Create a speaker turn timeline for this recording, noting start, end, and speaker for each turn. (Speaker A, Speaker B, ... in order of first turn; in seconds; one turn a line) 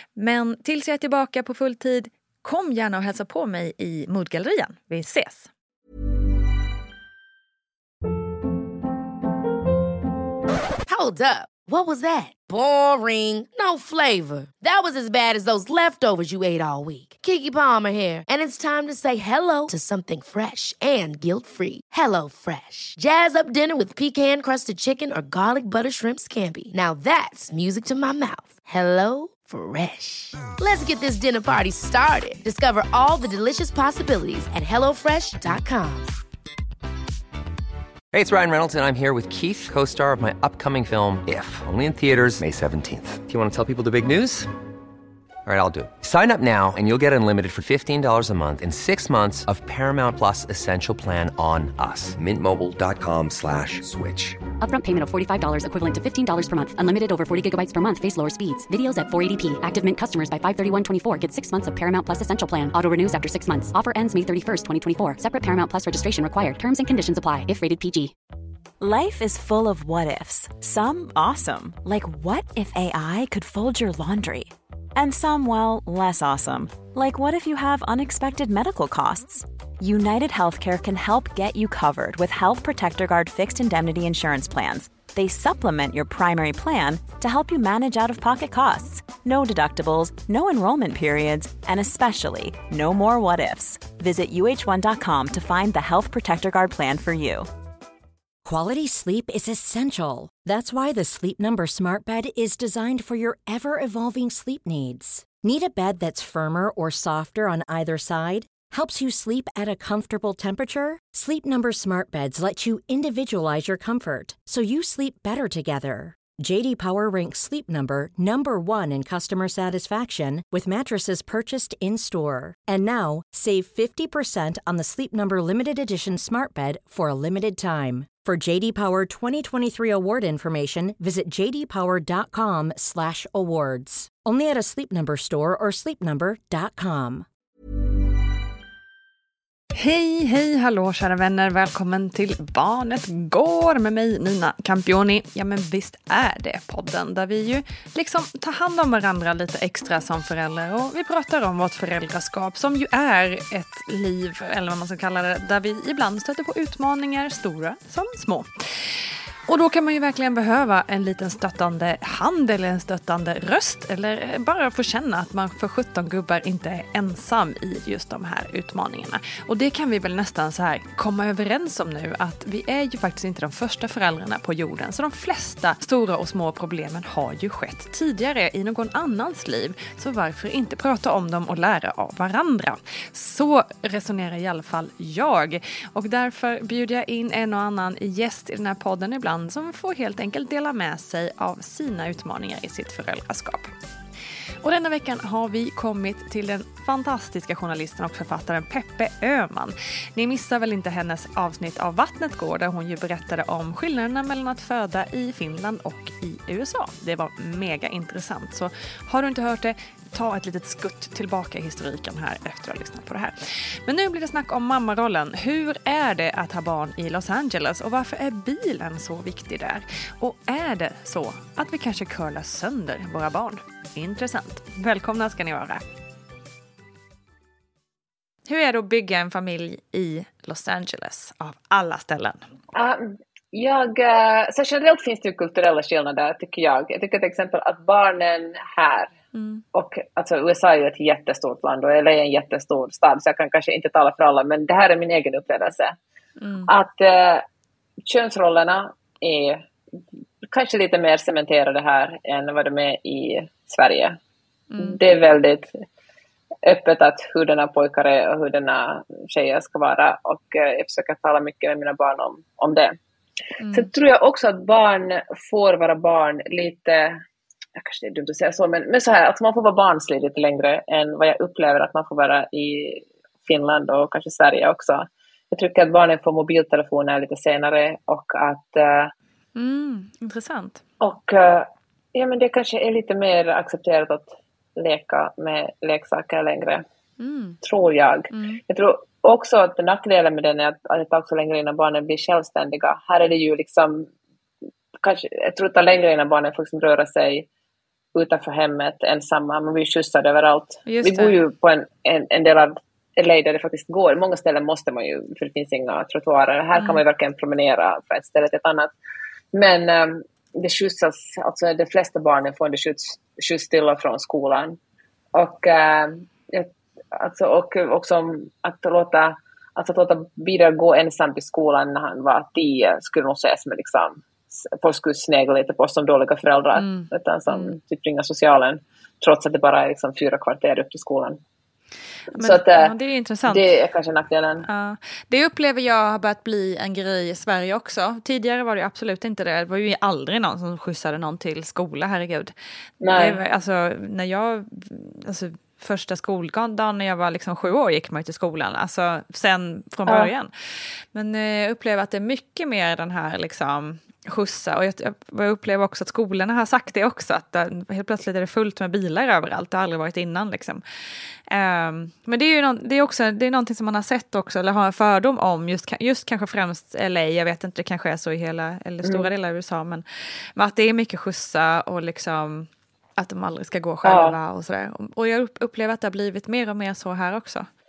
Speaker A: 0.1-5.5
Speaker B: 10.9-36.2
Speaker C: 38.1-44.5
Speaker C: 45.4-54.4
Speaker D: 54.6-68.1
Speaker E: 68.8-97.4
Speaker F: 98.4-137.2
Speaker A: 139.7-158.5
Speaker A: 159.5-193.7
Speaker A: 194.6-225.8
Speaker A: 228.5-232.4
Speaker G: 232.7-239.1
Speaker A: 239.3-239.6
Speaker G: 239.7-245.9
Speaker A: 246.4-246.7
Speaker G: 246.7-247.4
Speaker G: 248.0-249.6
Speaker G: 250.5-254.2
Speaker A: 254.7-255.0
Speaker G: 254.8-255.7
Speaker G: 256.6-262.9
Speaker A: 263.6-263.9
Speaker G: 263.7-267.2
Speaker G: 267.8-279.1
Speaker A: 279.5-280.8
Speaker G: 281.0-286.8
Speaker A: 287.2-287.6
Speaker G: 287.6-294.1
Speaker A: 288.3-288.6
Speaker G: 295.0-297.5
Speaker G: 298.1-308.9
Speaker A: 300.9-301.4
Speaker A: 306.8-307.0
Speaker G: 309.5-314.8
Speaker G: 315.3-331.4
Speaker A: 326.8-327.7
Speaker A: 332.3-333.7
Speaker G: 332.3-332.9
Speaker G: 333.5-334.6
Speaker A: 334.6-342.5
Speaker G: 343.0-343.4
Speaker A: 343.1-350.5
Speaker A: 351.1-360.8
Speaker A: 361.5-370.0
Speaker A: 370.5-377.7
Speaker G: 374.0-374.4